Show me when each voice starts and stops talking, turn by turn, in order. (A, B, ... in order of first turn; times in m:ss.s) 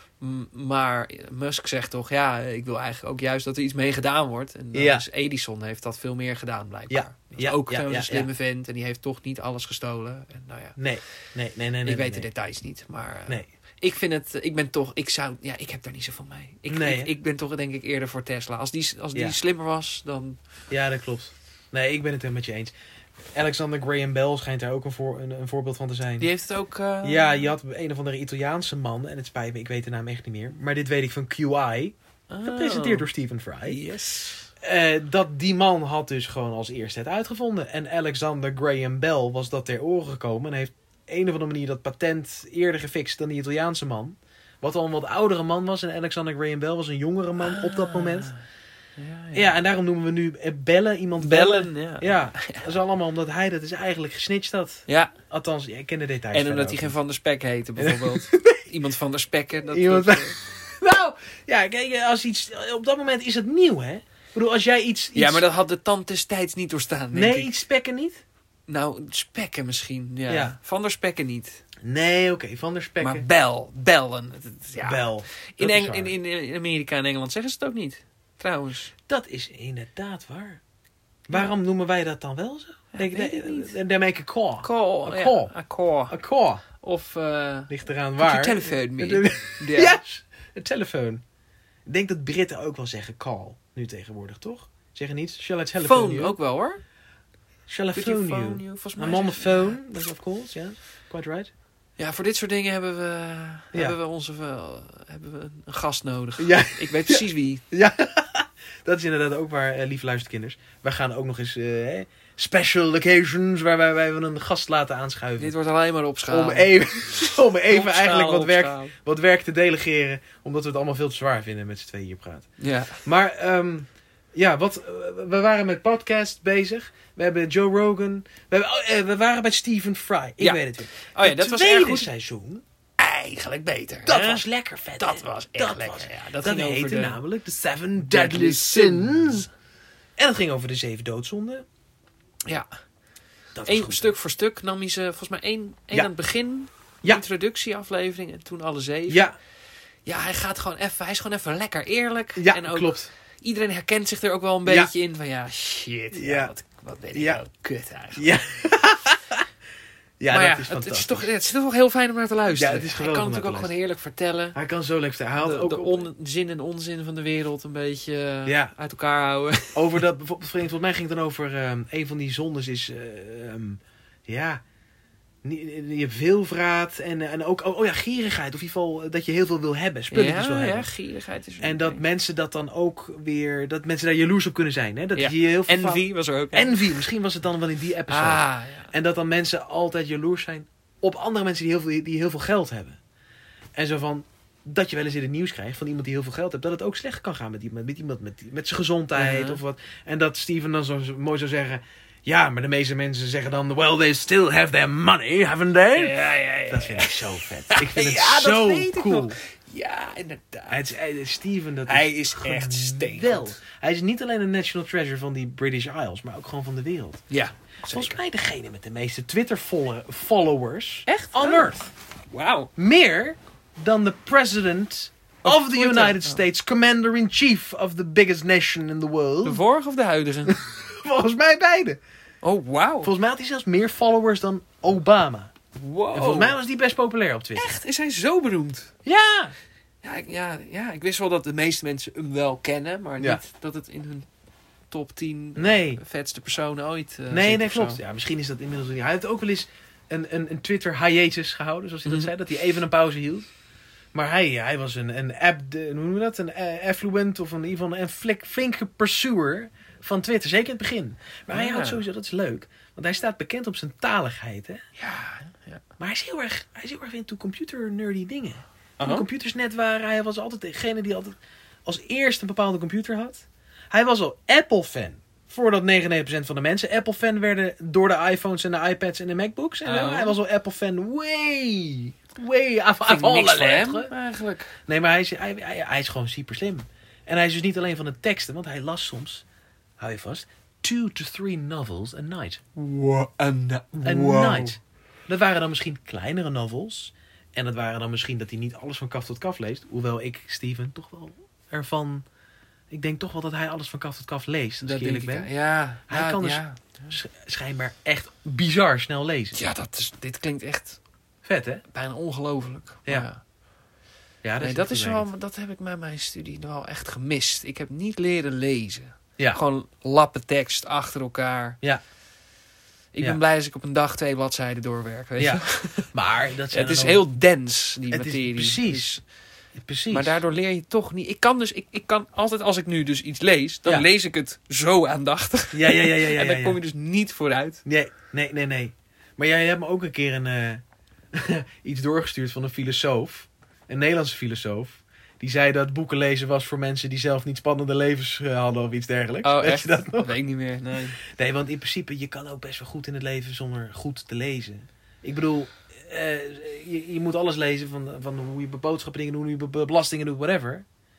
0:00.2-0:10.8 A
0:04.7-0:05.0 B
0:06.9-0:08.3 B
0:10.8-0:12.3 B
0:11.8-0:20.4 A
0:16.7-0:17.1 B
0:20.7-0:22.7 B
0:23.4-0:26.3 B
0:26.2-0:27.5 A
0:27.0-0:33.8 B
0:32.3-0:33.1 A
0:33.7-0:34.5 A
0:34.6-0:48.3 B
0:47.4-0:48.4 A
0:49.0-0:49.6 A
0:49.3-0:56.9 B
0:51.2-0:52.7 A
0:54.9-0:55.1 A
0:56.3-1:00.4 A
0:57.8-0:58.6 B
0:59.7-1:05.4 B
1:05.2-1:07.5 A
1:07.1-1:08.2 B
1:08.7-1:11.6 A
1:10.3-1:10.6 B
1:11.8-1:13.2 B
1:13.0-1:18.9 A
1:14.8-1:16.1 B
1:19.1-1:20.6 B
1:21.3-1:25.5 B
1:22.9-1:23.8 A
1:24.6-1:26.2 A
1:26.1-1:26.6 B
1:26.8-1:30.0 A
1:27.7-1:31.2 B
1:31.9-1:36.4 B
1:35.8-1:36.8 A
1:37.7-1:41.5 B
1:37.9-1:39.8 A
1:42.0-1:47.6 A
1:46.4-1:55.5 B
1:55.4-1:58.9 A
1:56.3-2:02.5 B
2:02.6-2:03.0 A
2:03.0-2:12.6 B
2:10.4-2:12.1 A
2:13.0-2:14.4 A
2:14.1-2:19.5 B
2:15.0-2:17.2 A
2:18.0-2:19.4 A
2:20.2-2:21.6 B
2:23.6-2:24.1 B
2:23.6-2:29.3 A
2:29.1-2:29.4 B
2:30.1-2:38.3 A
2:32.4-2:33.1 B
2:34.7-2:34.9 B
2:36.1-2:36.5 B
2:37.1-2:37.4 B
2:38.2-2:39.4 B
2:40.2-2:41.3 B
2:40.3-2:44.6 A
2:42.5-2:43.7 B
2:44.6-2:46.1 B
2:45.4-2:50.0 A
2:48.4-2:48.7 B
2:49.7-2:54.6 B
2:55.4-3:00.9 B
3:00.1-3:02.0 A
3:01.6-3:13.0 B
3:05.2-3:06.8 A
3:08.1-3:08.9 A
3:13.8-3:29.4 B
3:19.2-3:19.6 A
3:26.0-3:30.8 A
3:30.7-3:37.2 B
3:31.9-3:33.6 A
3:37.3-3:38.2 A
3:37.9-3:41.9 B
3:41.1-3:41.8 A
3:42.3-3:42.7 A
3:42.8-3:49.6 B
3:45.4-3:46.4 A
3:49.4-3:50.6 A
3:50.5-3:52.0 B
3:52.4-3:53.1 A
3:53.0-3:55.5 B
3:55.8-3:56.6 A
3:56.1-3:57.6 B
3:57.6-3:58.9 A
3:59.0-3:59.5 B
4:00.0-4:04.3 A
4:04.9-4:08.0 A
4:05.6-4:06.0 B
4:07.3-4:13.5 B
4:14.1-4:24.8 B
4:21.5-4:22.0 A
4:25.0-4:25.8 A
4:26.0-4:44.1 B
4:29.0-4:29.3 A
4:39.8-4:40.4 A
4:43.0-4:44.7 A
4:44.9-4:49.4 B
4:50.0-4:52.6 B
4:52.8-4:54.8 A
4:54.0-5:02.3 B
5:02.9-5:05.5 B
5:04.8-5:07.2 A
5:06.1-5:09.6 B
5:09.5-5:11.0 A
5:11.4-5:11.8 B
5:11.9-5:13.4 A
5:14.4-5:15.3 B
5:14.6-5:21.8 A
5:23.1-5:26.1 A
5:25.4-5:27.2 B
5:26.7-5:29.2 A
5:28.1-5:29.1 B
5:29.8-5:30.4 B
5:30.1-5:37.8 A
5:35.7-5:36.8 B
5:37.8-5:50.4 B
5:49.4-5:51.2 A
5:51.2-6:00.8 B